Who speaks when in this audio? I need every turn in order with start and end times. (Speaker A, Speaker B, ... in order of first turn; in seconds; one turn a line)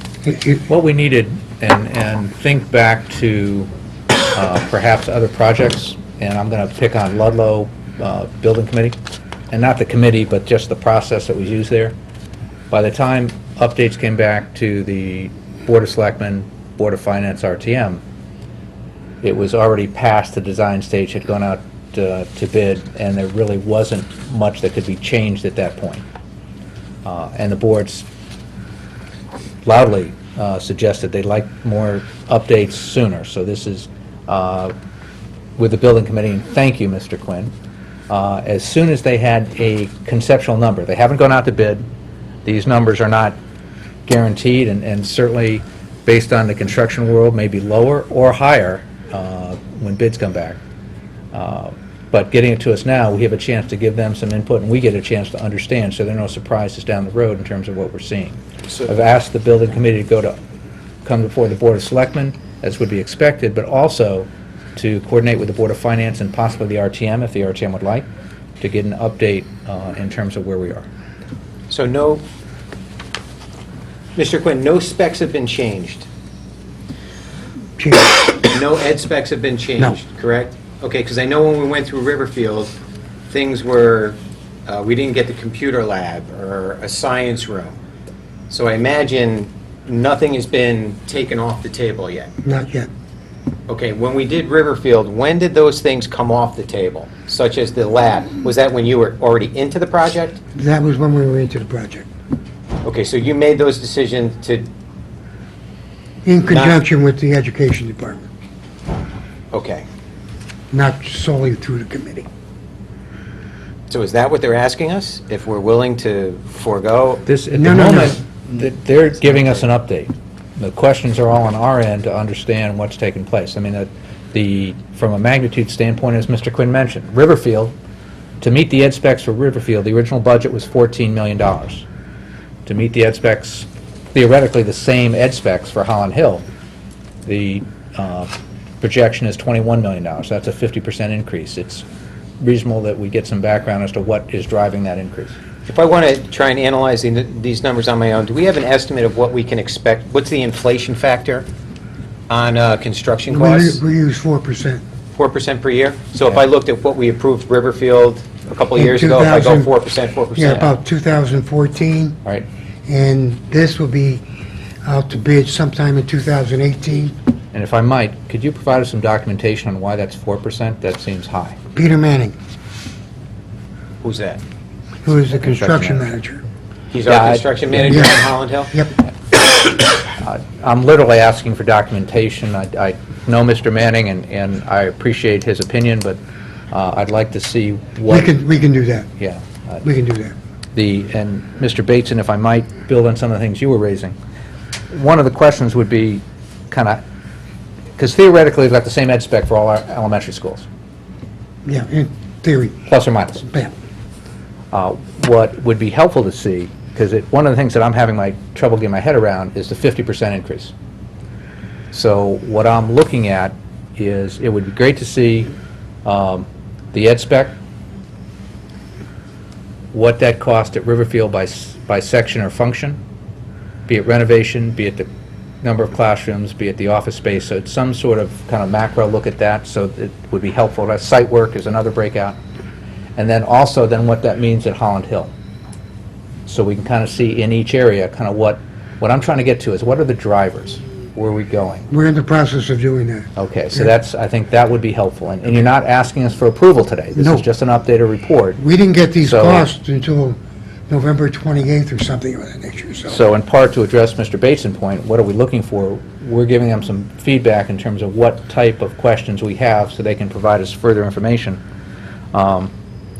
Speaker A: 0.2-0.6
Speaker B: 0.7-3.7
Speaker B: 4.3-8.9
Speaker B: 9.5-11.9
Speaker B: 12.7-18.0
Speaker B: 19.2-26.0
Speaker B: 27.0-28.1
Speaker B: 29.6-34.7
Speaker B: 35.6-37.5
Speaker B: 38.1-41.9
Speaker B: 42.4-43.4
Speaker B: 44.0-50.6
Speaker B: 51.3-60.3
Speaker B: 61.0-68.1
Speaker B: 68.6-70.8
Speaker C: 71.7-72.2
Speaker C: 74.2-76.1
Speaker A: 77.8-78.2
Speaker C: 78.4-82.7
Speaker C: 83.3-87.8
Speaker C: 88.5-92.3
Speaker A: 92.4-92.9
Speaker C: 93.7-100.4
Speaker A: 100.5-102.1
Speaker C: 102.8-104.7
Speaker A: 106.2-108.3
Speaker C: 106.5-106.8
Speaker C: 109.5-109.8
Speaker A: 110.7-112.3
Speaker C: 113.9-117.3
Speaker B: 117.2-127.7
Speaker A: 117.5-118.2
Speaker B: 128.4-131.8
Speaker B: 132.7-136.4
Speaker B: 137.2-141.8
Speaker B: 142.4-145.3
Speaker C: 145.7-151.5
Speaker C: 152.3-153.8
Speaker A: 153.3-154.8
Speaker C: 155.1-160.7
Speaker A: 158.8-159.7
Speaker A: 160.3-162.2
Speaker A: 162.9-164.2
Speaker A: 164.8-167.1
Speaker B: 167.5-171.6
Speaker A: 171.7-172.3
Speaker C: 174.0-174.4
Speaker A: 175.0-176.4
Speaker B: 175.4-176.0
Speaker C: 176.9-178.8
Speaker B: 177.1-178.1
Speaker A: 177.9-178.1
Speaker B: 180.2-186.2
Speaker B: 186.7-188.3
Speaker A: 188.1-189.1
Speaker B: 189.2-189.8
Speaker A: 189.8-190.3
Speaker B: 190.7-194.1
Speaker B: 194.9-197.0
Speaker B: 198.0-200.7
Speaker A: 201.6-202.8
Speaker B: 202.9-203.5
Speaker B: 204.7-210.7
Speaker B: 211.9-215.5
Speaker B: 216.0-217.6
Speaker B: 219.9-223.0
Speaker B: 223.9-225.1
Speaker B: 225.6-232.4
Speaker B: 233.2-235.3
Speaker B: 236.4-241.9
Speaker A: 241.9-243.9
Speaker B: 243.4-248.6
Speaker A: 247.1-247.4
Speaker A: 248.6-250.4
Speaker B: 249.2-249.7
Speaker A: 250.9-253.2
Speaker B: 253.1-261.6
Speaker B: 262.3-262.7